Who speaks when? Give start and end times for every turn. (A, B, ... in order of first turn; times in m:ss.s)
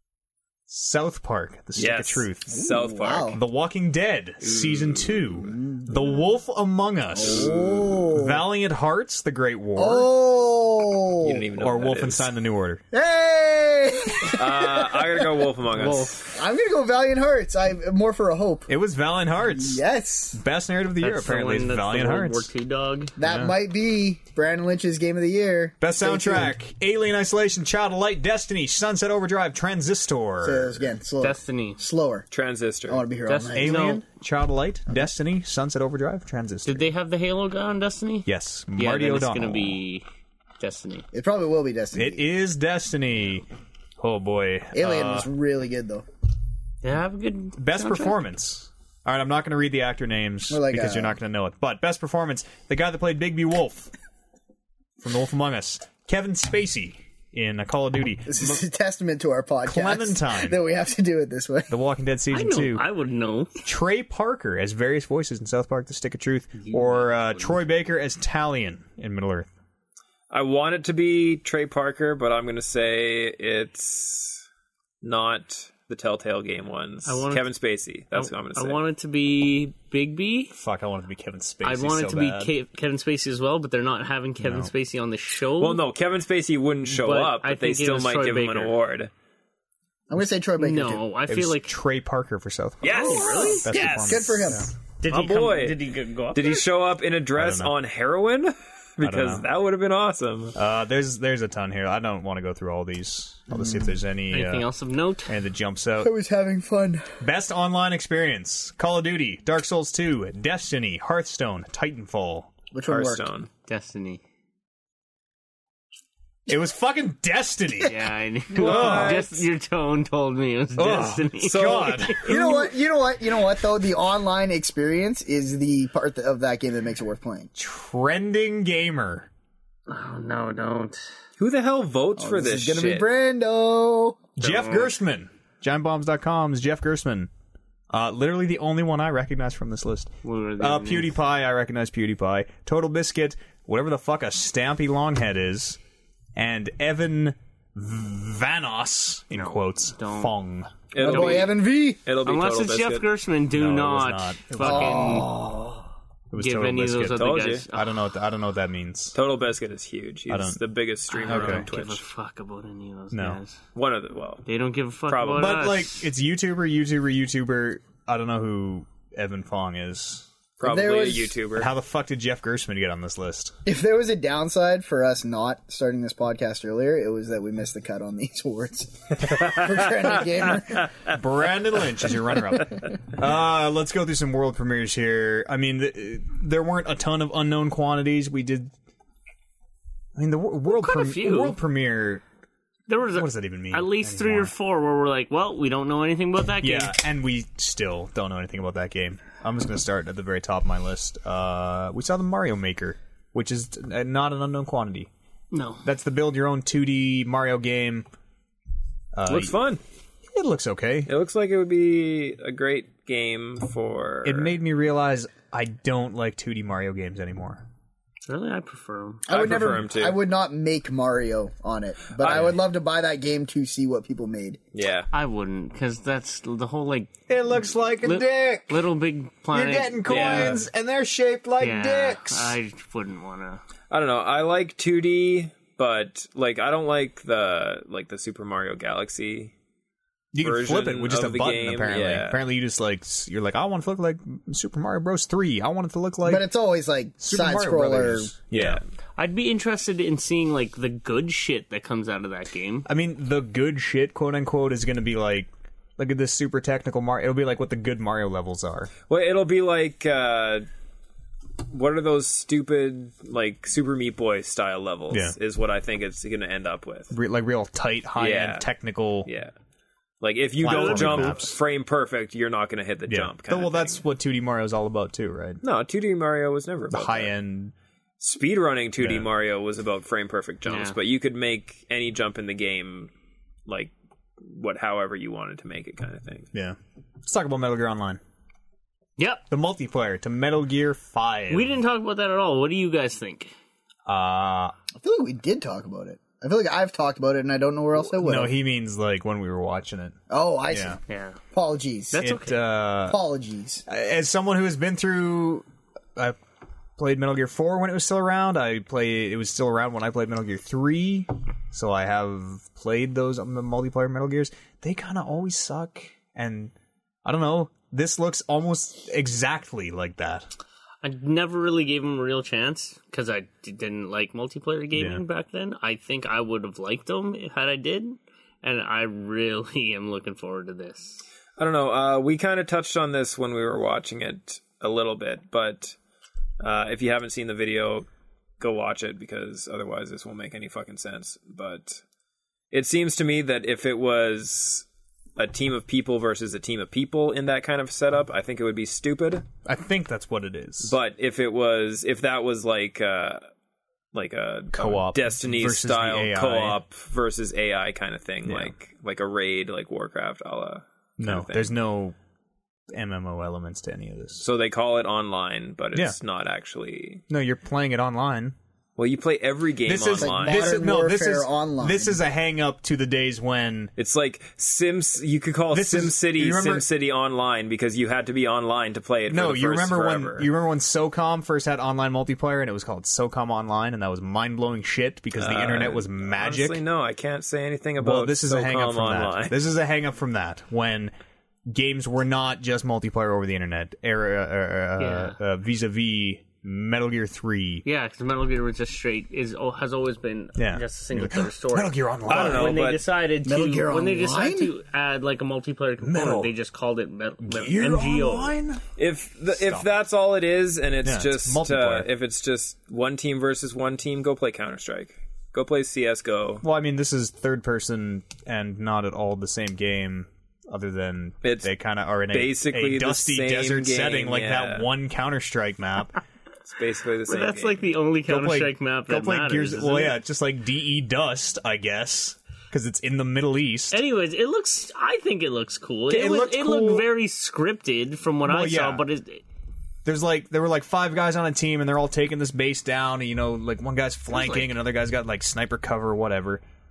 0:00.7-0:02.5 A
0:01.8-0:03.4 B
0:02.5-0:03.4 C
0:03.3-0:10.1 A
0:04.4-0:05.4 B
0:05.4-0:06.2 C
0:07.1-0:08.4 C
0:07.2-0:08.0 B
0:09.8-0:11.4 C
0:11.2-0:12.3 B
0:11.6-0:12.8 A
0:12.9-0:15.4 C
0:14.2-0:16.4 B
0:15.8-0:16.1 D
0:16.3-0:18.7 C
0:18.7-0:19.8 A
0:19.4-0:20.4 C
0:20.3-0:22.5 A
0:21.0-0:23.1 D
0:23.2-0:26.5 C
0:23.2-0:23.5 A
0:25.8-0:30.9 A
0:30.4-0:32.2 C
0:31.2-0:31.8 D
0:32.3-0:33.0 B
0:32.9-0:33.8 C
0:33.3-0:34.0 D
0:33.5-0:36.9 A
0:36.6-0:40.0 D
0:38.2-0:39.8 A
0:40.6-0:41.0 D
0:41.1-0:42.2 C
0:41.9-0:43.4 A
0:44.0-0:45.3 A
0:44.7-0:46.0 C
0:46.8-0:48.2 D
0:47.6-0:53.9 A
0:50.5-0:51.2 C
0:55.0-0:58.6 A
0:58.3-1:01.7 C
0:59.6-1:00.6 A
1:01.7-1:02.8 A
1:02.3-1:03.6 D
1:03.6-1:09.5 A
1:06.6-1:07.6 D
1:10.3-1:14.4 B
1:15.0-1:18.8 B
1:17.0-1:17.4 D
1:18.1-1:20.5 D
1:20.5-1:22.5 A
1:21.6-1:25.8 D
1:24.4-1:24.7 A
1:25.6-1:29.1 B
1:26.8-1:28.8 D
1:30.1-1:31.0 C
1:30.6-1:31.7 D
1:31.3-1:34.7 A
1:32.8-1:34.5 B
1:32.8-1:33.8 D
1:33.3-1:34.7 C
1:35.0-1:36.7 D
1:35.1-1:35.8 B
1:36.3-1:40.5 B
1:37.3-1:37.7 A
1:39.0-1:39.5 A
1:40.5-1:44.7 A
1:43.5-1:43.9 C
1:44.3-1:45.4 D
1:45.3-1:46.1 A
1:46.0-1:47.1 C
1:47.2-1:52.5 A
1:52.7-1:53.3 C
1:52.9-1:53.5 B
1:53.7-1:54.2 D
1:56.5-1:59.2 A
1:57.8-2:02.2 D
1:58.5-1:59.5 B
2:00.7-2:02.7 A
2:01.4-2:02.1 B
2:02.2-2:07.5 C
2:07.6-2:09.3 A
2:09.9-2:11.0 D
2:11.4-2:13.1 B
2:12.2-2:14.2 C
2:14.4-2:17.3 A
2:14.4-2:14.9 D
2:17.9-2:25.8 A
2:20.2-2:21.2 D
2:26.3-2:30.7 A
2:29.3-2:30.3 D
2:30.9-2:33.1 B
2:31.0-2:32.0 C
2:31.0-2:31.5 D
2:32.2-2:35.3 D
2:33.5-2:35.3 A
2:34.6-2:35.9 C
2:36.3-2:39.2 A
2:36.4-2:38.0 D
2:37.2-2:37.6 B
2:39.1-2:42.0 B
2:40.3-2:40.6 A
2:41.1-2:43.6 D
2:41.3-2:41.6 A
2:43.1-2:43.4 A
2:43.7-2:44.4 B
2:44.4-2:46.1 D
2:45.1-2:45.7 B
2:45.3-2:50.3 A
2:50.6-2:51.7 B
2:50.6-2:51.4 C
2:51.5-2:53.6 A
2:53.6-3:00.9 C
3:01.0-3:08.7 A
3:10.1-3:12.2 A
3:10.7-3:11.6 D
3:12.9-3:17.0 D
3:13.1-3:14.5 A
3:16.6-3:25.1 A
3:25.5-3:25.8 D
3:25.8-3:28.1 A
3:29.1-3:29.5 A
3:29.3-3:29.8 B
3:30.3-3:31.1 A
3:31.1-3:34.6 B
3:34.2-3:37.6 A
3:38.2-3:39.2 D
3:39.2-3:44.6 C
3:39.3-3:40.2 B
3:42.2-3:42.6 B
3:44.7-3:45.1 B
3:45.1-3:47.1 D
3:47.3-3:48.8 A
3:48.0-3:50.6 D
3:49.5-3:52.6 A
3:50.1-3:50.6 B
3:51.6-3:53.6 D
3:53.9-3:59.5 B
4:00.3-4:06.4 A
4:00.4-4:02.4 B
4:06.2-4:08.3 C
4:07.2-4:08.8 A
4:08.5-4:08.8 B
4:09.2-4:12.9 D
4:12.8-4:18.9 A
4:19.1-4:20.7 B
4:21.7-4:27.1 B
4:25.1-4:25.4 A
4:27.1-4:29.3 A
4:28.2-4:28.7 B
4:29.2-4:29.5 B
4:30.2-4:34.0 B
4:30.6-4:31.6 A
4:30.6-4:31.4 D
4:33.1-4:35.6 A
4:35.6-4:37.3 B
4:36.9-4:37.7 A
4:38.2-4:43.1 B
4:39.0-4:39.3 A
4:40.6-4:41.0 D
4:43.7-4:46.5 B
4:46.5-4:48.2 A
4:49.2-4:49.4 D
4:49.5-4:51.8 A
4:51.5-4:53.5 D
4:54.0-4:54.7 A
4:55.0-4:58.5 C
4:58.0-5:00.2 A
5:00.3-5:01.0 C
5:00.7-5:01.0 A
5:01.1-5:01.4 D
5:01.5-5:02.2 C
5:02.1-5:02.6 D
5:02.2-5:03.2 A
5:03.0-5:03.8 C
5:03.9-5:05.6 A
5:07.0-5:16.7 A
5:17.2-5:20.5 A
5:21.0-5:31.2 D
5:24.9-5:25.2 A
5:31.6-5:36.0 B
5:36.6-5:38.1 B
5:38.6-5:42.0 B
5:42.7-5:44.8 B
5:45.4-5:49.4 B
5:49.6-5:51.0 A
5:50.8-5:53.4 B
5:54.1-6:01.7 B
5:54.7-5:56.8 A
5:58.4-5:58.7 A
6:01.2-6:02.1 A
6:02.9-6:04.4 A
6:04.4-6:07.2 B
6:07.3-6:08.6 A
6:09.0-6:10.6 B
6:09.8-6:13.9 A
6:10.2-6:12.2 C
6:14.0-6:20.5 B
6:15.7-6:16.8 A
6:19.3-6:26.8 A
6:25.4-6:29.6 B
6:28.0-6:31.1 A
6:31.7-6:37.8 A
6:35.0-6:35.4 D
6:37.8-6:48.5 D
6:40.6-6:42.8 A
6:42.3-6:43.0 B
6:43.4-6:44.7 C
6:46.0-6:46.5 A
6:47.4-6:48.8 A
6:49.0-6:56.6 B
6:49.5-6:49.8 A
6:51.0-6:52.1 A
6:56.6-7:06.1 A
7:01.4-7:01.7 B
7:02.3-7:04.9 B
7:06.6-7:07.9 B
7:07.3-7:10.2 D
7:08.3-7:14.0 A
7:13.9-7:19.4 D
7:16.1-7:17.0 A
7:18.4-7:19.0 A
7:20.0-7:26.6 A
7:24.3-7:24.7 D